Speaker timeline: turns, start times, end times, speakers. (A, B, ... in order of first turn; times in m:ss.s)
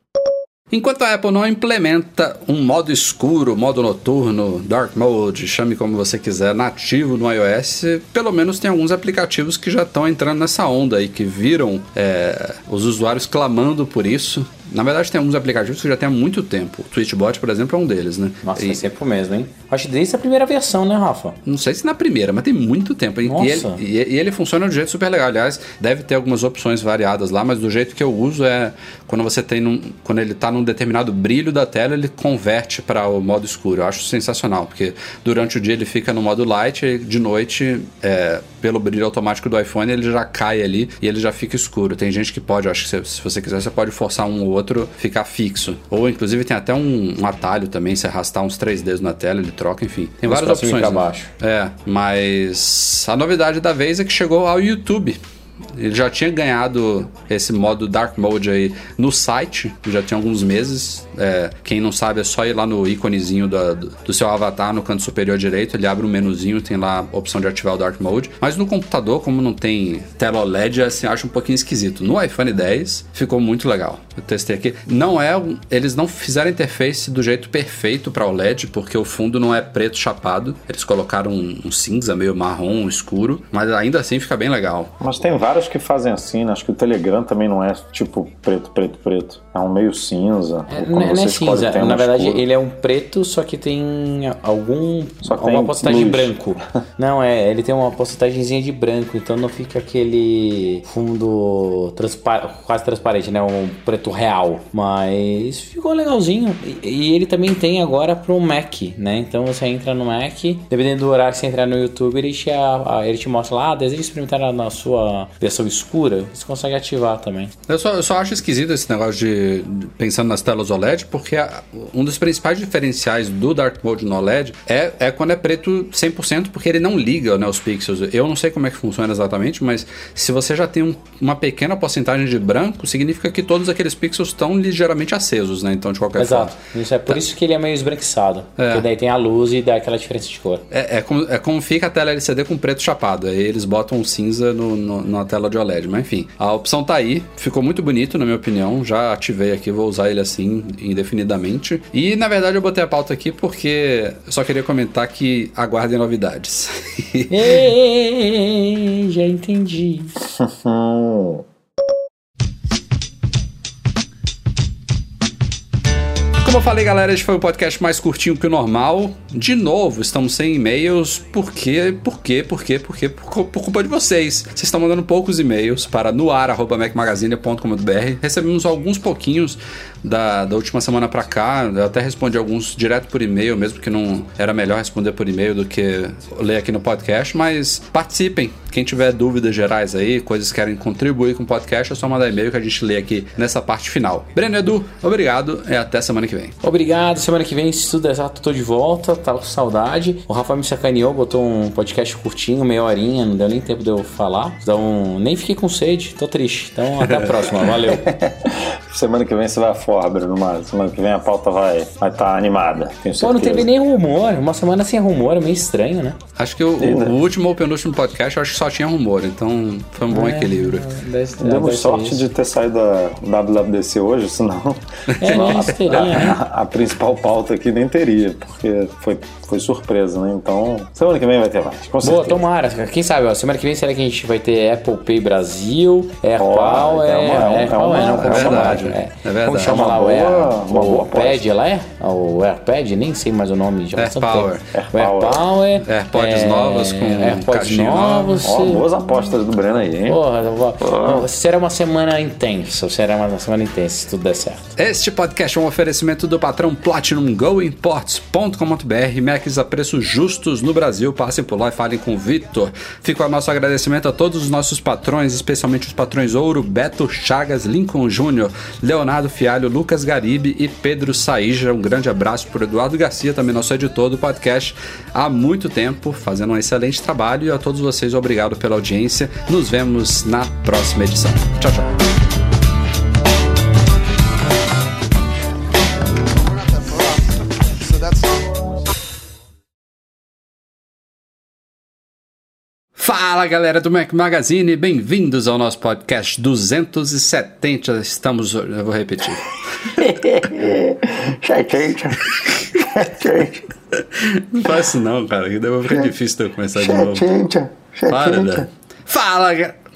0:00.7-0:18.8 A
0:18.4-0:21.4 B
0:21.4-0:55.2 A
0:23.2-0:23.8 B
0:50.3-0:51.3 B
0:55.8-1:24.9 A
1:25.0-1:32.4 C
1:30.7-1:57.5 B
1:35.2-1:36.5 C
1:57.7-2:16.5 A
2:16.2-2:20.6 B
2:18.6-2:18.8 A
2:20.7-2:37.6 A
2:37.3-2:40.2 B
2:40.2-2:41.4 C
2:46.4-3:16.5 A
3:16.6-3:28.1 B
3:27.0-3:27.5 A
3:27.9-3:33.7 C
3:33.2-3:36.2 B
3:36.4-3:40.8 A
3:36.8-3:37.1 C
3:40.1-3:42.2 B
3:41.4-3:52.4 C
3:45.1-3:46.1 A
3:45.2-3:46.4 B
3:52.0-4:08.8 B
3:56.4-4:01.4 C
3:58.0-3:59.8 A
4:04.0-4:04.6 A
4:04.7-4:05.4 C
4:05.8-4:08.4 A
4:08.4-4:10.2 C
4:10.0-4:14.7 B
4:10.8-4:11.3 C
4:14.8-4:41.9 A
4:53.0-5:00.1 A
5:00.0-5:03.6 C
5:04.0-5:07.3 A
5:06.8-5:08.6 C
5:08.1-5:09.7 A